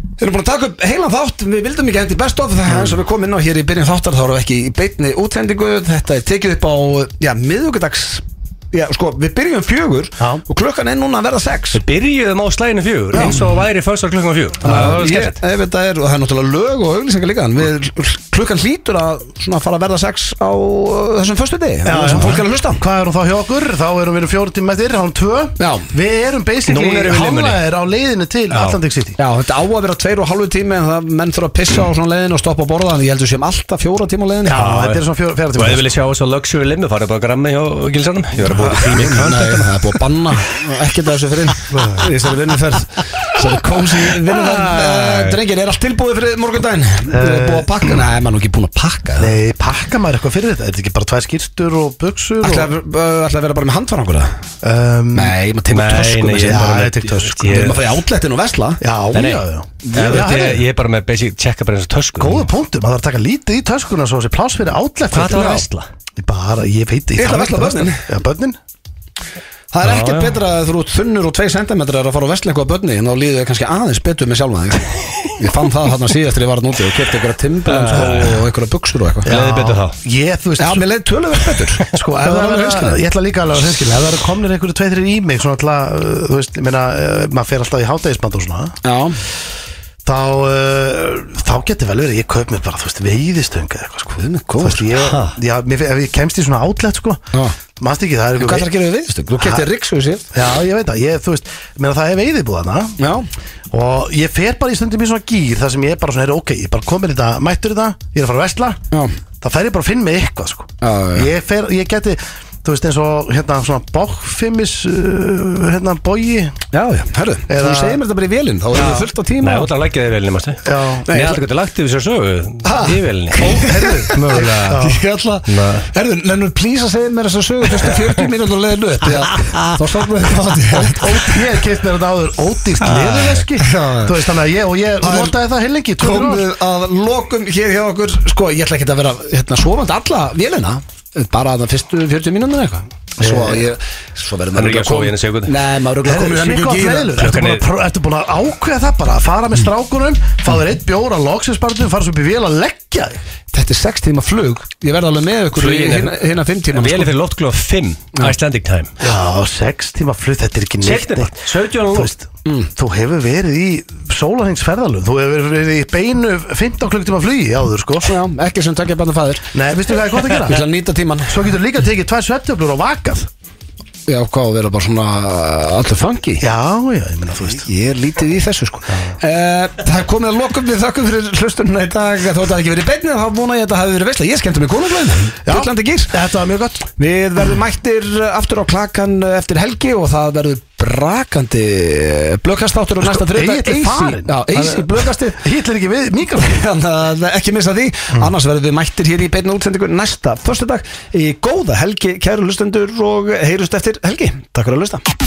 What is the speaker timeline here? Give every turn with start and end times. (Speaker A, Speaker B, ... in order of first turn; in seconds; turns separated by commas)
Speaker A: 0.2-11.8, Speaker B: 11.7-15.4, Speaker A: 14.6-22.8, Speaker C: 21.8-29.2, Speaker A: 25.6-25.9, Speaker B: 26.7-27.6, Speaker B: 28.5-28.8, Speaker A: 29.2-34.7, Speaker C: 34.4-35.8, Speaker B: 34.5-35.0, Speaker B: 35.5-39.9, Speaker A: 38.5-49.4, Speaker C: 41.7-42.1, Speaker B: 44.0-45.4, Speaker C: 47.1-48.0, Speaker C: 49.2-52.7, Speaker A: 52.4-54.3, Speaker C: 54.6-55.4, Speaker A: 55.1-58.8, Speaker B: 55.7-58.0, Speaker C: 56.4-57.6, Speaker C: 58.8-60.6, Speaker B: 59.1-62.4, Speaker A: 59.8-60.3, Speaker C: 62.2-65.7, Speaker B: 65.1-65.8, Speaker C: 66.2-68.6, Speaker A: 67.2-68.1, Speaker A: 69.7-79.3, Speaker B: 69.8-70.4, Speaker B: 77.7-78.4, Speaker C: 79.2-80.8, Speaker B: 79.3-80.0, Speaker A: 80.6-83.0, Speaker C: 81.9-88.8, Speaker A: 88.8-89.2, Speaker C: 90.0-97.2, Speaker A: 94.2-94.8, Speaker B: 95.0-95.3, Speaker C: 97.8-98.7, Speaker A: 98.4-100.2, Speaker C: 99.4-99.7, Speaker C: 100.3-103.0, Speaker A: 103.0-103.3, Speaker C: 103.7-108.8, Speaker C: 109.4-116.6, Speaker A: 110.8-111.3, Speaker A: 116.7-119.7, Speaker C: 117.5-118.0, Speaker C: 118.7-119.1, Speaker B: 119.4-124.9, Speaker C: 120.6-121.1, Speaker A: 121.1-121.4, Speaker A: 122.6-131.3, Speaker C: 123.4-125.0, Speaker B: 125.5-125.9, Speaker B: 129.3-129.7, Speaker C: 130.7-136.4, Speaker B: 132.8-133.4, Speaker A: 133.6-134.2, Speaker A: 135.0-135.3, Speaker A: 136.0-147.2, Speaker C: 143.2-143.6, Speaker B: 144.5-145.5, Speaker C: 146.0-153.2, Speaker B: 147.2-147.6, Speaker A: 153.5-157.1, Speaker B: 155.5-156.2, Speaker B: 156.7-158.9, Speaker C: 159.0-168.1, Speaker B: 160.8-162.1, Speaker A: 168.1-169.5, Speaker C: 169.5-170.6, Speaker A: 170.3-171.4, Speaker C: 171.3-173.3, Speaker A: 174.1-176.4, Speaker C: 176.4-177.6, Speaker A: 177.3-186.1, Speaker C: 185.4-186.8, Speaker A: 186.9-195.4, Speaker C: 193.0-196.6, Speaker A: 196.3-205.0